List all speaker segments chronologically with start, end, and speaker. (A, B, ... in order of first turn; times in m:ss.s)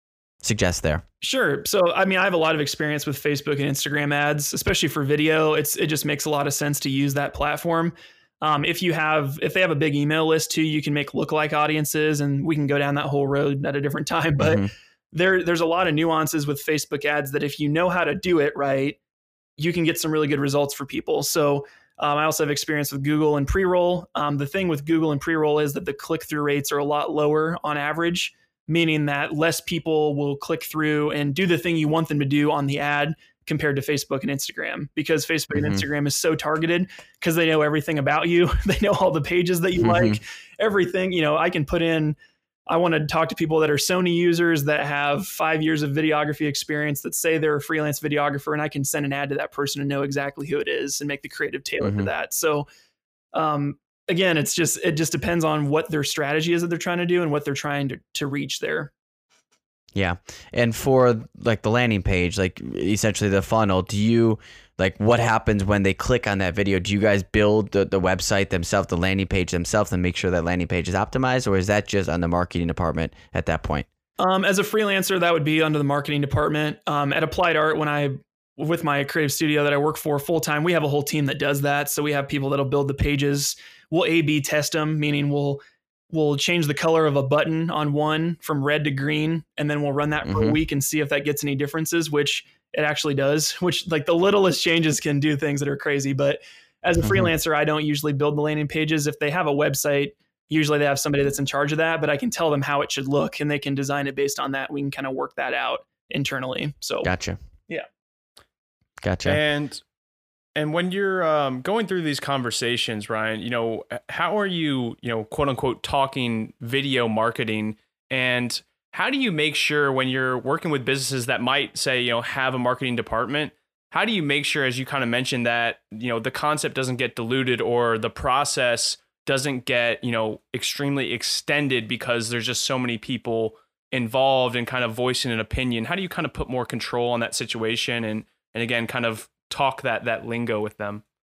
0:00.4-0:01.0 A
0:01.2-0:19.0 B
0:14.4-0:14.7 A
0:19.6-0:42.2 B
0:35.5-0:35.8 A
0:39.8-0:40.2 A
0:42.7-0:52.7 B
0:51.8-0:52.1 A
0:53.3-0:58.9 B
0:59.9-1:13.9 A
1:14.2-1:47.1 B
1:30.2-1:30.6 A
1:37.0-1:37.3 A
1:47.0-1:47.4 A
1:49.0-1:49.4 A
1:49.2-1:49.8 C
1:50.6-2:21.0 C